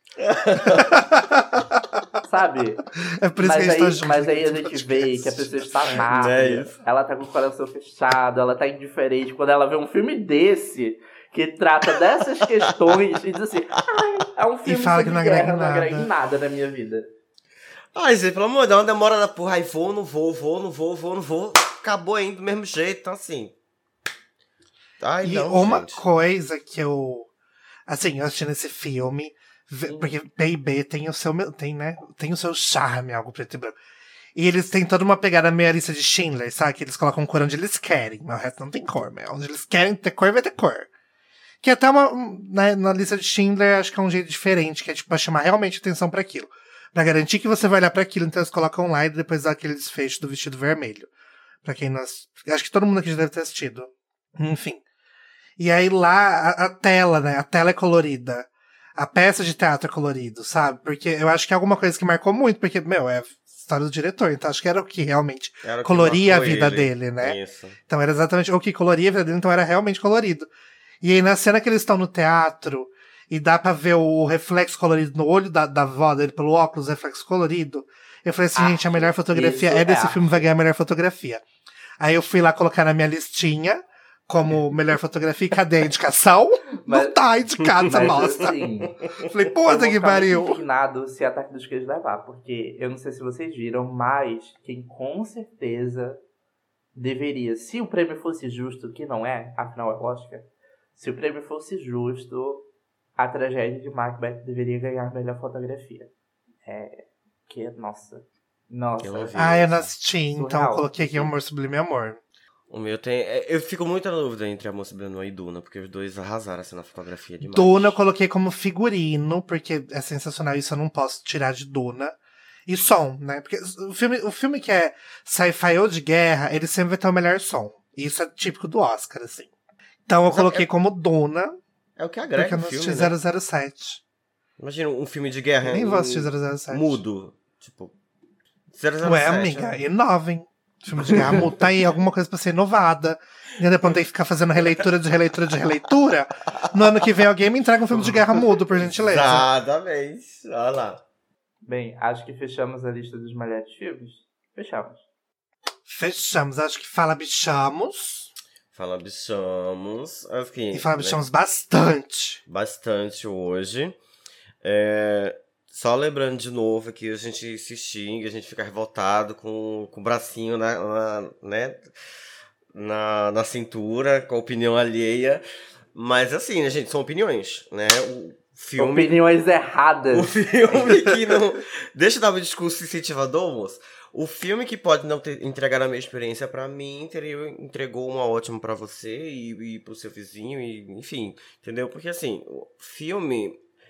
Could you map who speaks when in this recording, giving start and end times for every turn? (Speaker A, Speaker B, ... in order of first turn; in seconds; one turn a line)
Speaker A: 0.2-1.0
Speaker B: 0.6-2.0
Speaker C: 2.2-2.8
Speaker B: 3.0-6.0
Speaker C: 3.4-17.1
Speaker A: 6.1-6.8
Speaker B: 14.6-16.1
Speaker A: 17.9-23.5
Speaker A: 25.0-26.0
Speaker B: 25.2-27.3
Speaker B: 27.9-33.8
Speaker C: 29.9-30.1
Speaker B: 34.3-40.9
Speaker B: 41.6-51.1
Speaker B: 51.6-54.8
Speaker B: 55.6-67.4
Speaker A: 65.6-67.8
Speaker B: 67.9-70.5
Speaker B: 71.0-81.4
Speaker C: 78.5-80.5
Speaker B: 82.0-88.7
Speaker C: 86.8-87.2
Speaker C: 87.8-88.9
Speaker B: 89.2-90.6
Speaker C: 89.6-96.2
Speaker C: 96.9-102.7
Speaker C: 103.2-106.1
Speaker C: 106.6-109.5
Speaker A: 109.0-109.9
Speaker B: 109.4-112.2
Speaker C: 110.3-111.2
Speaker A: 112.7-118.0
Speaker B: 117.5-122.2
Speaker B: 122.7-129.5
Speaker B: 130.1-131.6
Speaker A: 130.3-130.7
Speaker A: 132.0-133.2
Speaker B: 132.3-134.0
Speaker A: 134.6-137.9
Speaker B: 135.6-137.0
Speaker A: 138.7-139.8
Speaker B: 139.0-149.5
Speaker A: 141.2-141.4
Speaker A: 147.9-151.0
Speaker C: 151.7-155.0
Speaker B: 155.8-158.3
Speaker A: 158.7-161.2
Speaker B: 160.7-162.4
Speaker A: 162.5-163.9
Speaker A: 164.6-171.9
Speaker A: 172.7-175.4
Speaker A: 175.9-179.1
Speaker C: 178.8-180.8
Speaker A: 180.1-193.6